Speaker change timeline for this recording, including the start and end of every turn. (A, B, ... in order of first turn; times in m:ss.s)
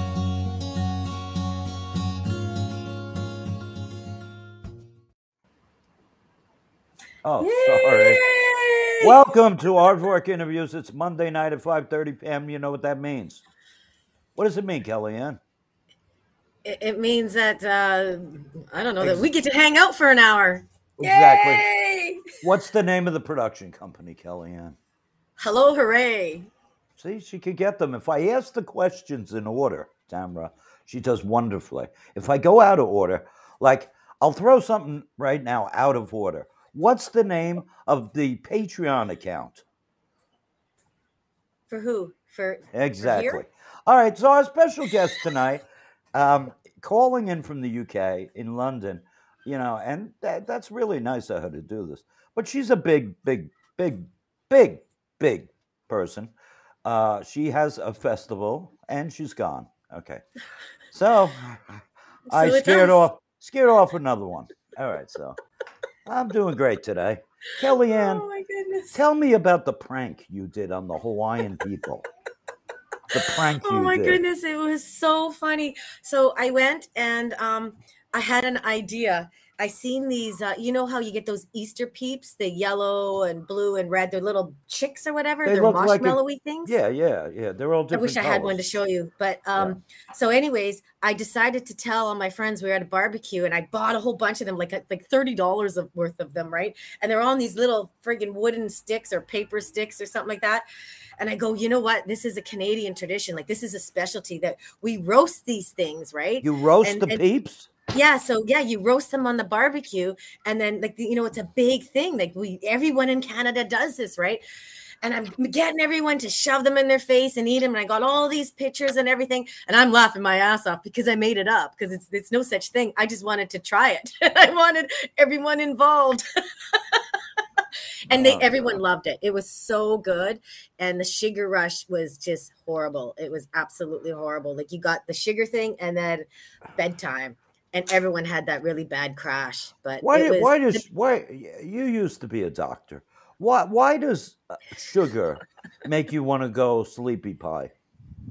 0:07.2-0:08.2 A
0:07.4-0:09.2 B
0:09.0-0:13.4 A
0:14.3-0:15.4 A
0:16.6-0:22.3 B
0:19.0-0:19.3 A
0:21.0-0:21.6 A
0:22.4-0:24.8 A
0:25.4-0:26.5 B
0:27.0-0:39.6 A
0:41.7-0:43.4 B
0:42.7-0:56.3 A
0:56.8-1:00.2 A
1:00.9-1:05.4 A
1:02.3-1:03.0 B
1:06.0-1:08.2 A
1:07.6-1:09.0 B
1:08.9-1:12.1 A
1:13.1-1:14.2 A
1:13.2-1:26.7 B
1:25.4-1:28.6 A
1:27.9-1:40.6 B
1:41.2-1:47.2 B
1:46.4-1:47.7 A
1:47.9-1:54.4 B
1:55.0-2:06.2 B
2:06.7-2:07.0 B
2:08.1-2:20.8 B
2:08.1-2:08.8 A
2:20.0-2:27.7 A